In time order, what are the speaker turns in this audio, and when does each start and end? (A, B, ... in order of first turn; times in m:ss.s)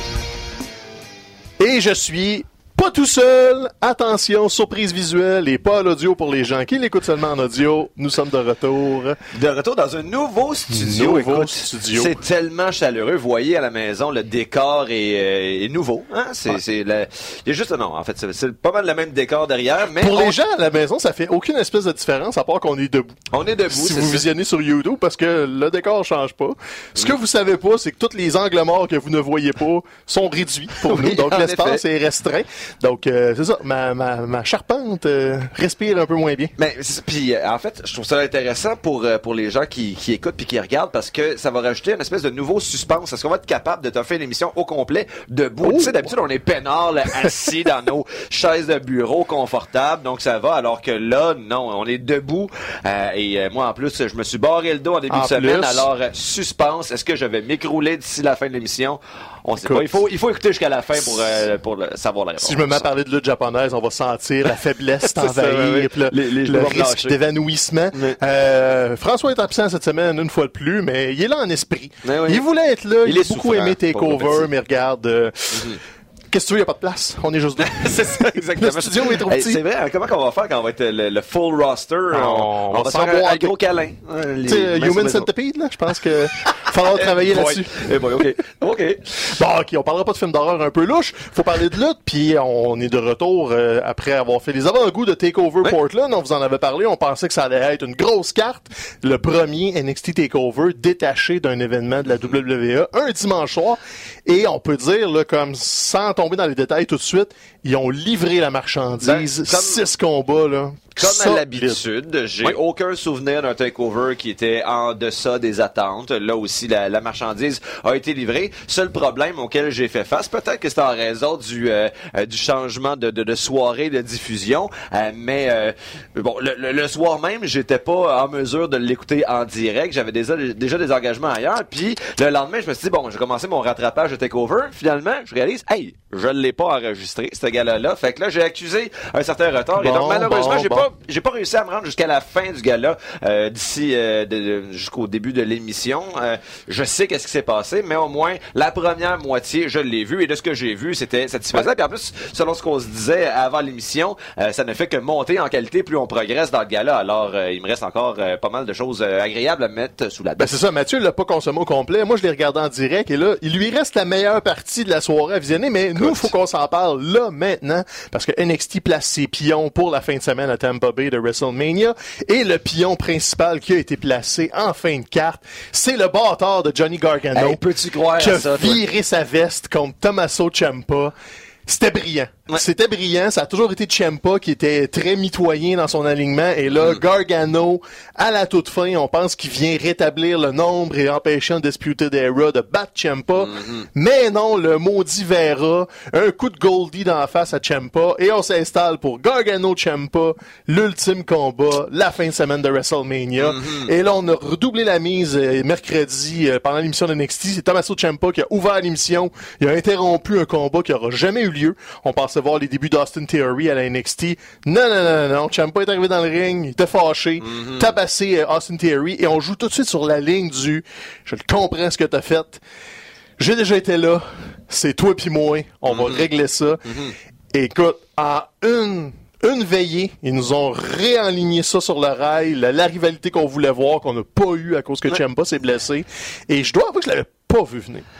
0:01.6-0:09.2 A
0:09.3-0:20.4 B
0:10.7-0:12.2 A
0:20.0-0:23.1 A
0:23.3-0:24.2 B
0:23.7-0:36.5 A
0:30.8-0:31.8 B
0:36.6-1:02.9 B
0:45.6-0:46.1 A
0:55.1-0:55.9 A
0:59.6-1:00.0 A
1:02.4-1:15.8 A
1:05.1-1:07.2 B
1:12.0-1:12.4 B
1:13.0-1:14.5 B
1:15.5-1:15.8 B
1:16.3-1:19.6 A
1:17.6-1:25.3 B
1:22.1-1:23.5 A
1:24.4-1:28.3 A
1:26.4-1:29.2 B
1:29.2-1:51.8 A
1:49.0-1:49.8 B
1:51.0-2:40.5 B
2:19.8-2:20.9 A
2:40.4-2:57.6 A
2:46.0-2:46.3 B
2:57.3-2:58.8 B
2:58.2-3:01.1 A
3:01.7-3:42.6 A
3:13.5-3:13.8 B
3:23.4-3:23.9 B
3:37.4-3:37.9 B
3:43.4-3:58.0 A
3:45.9-3:46.2 B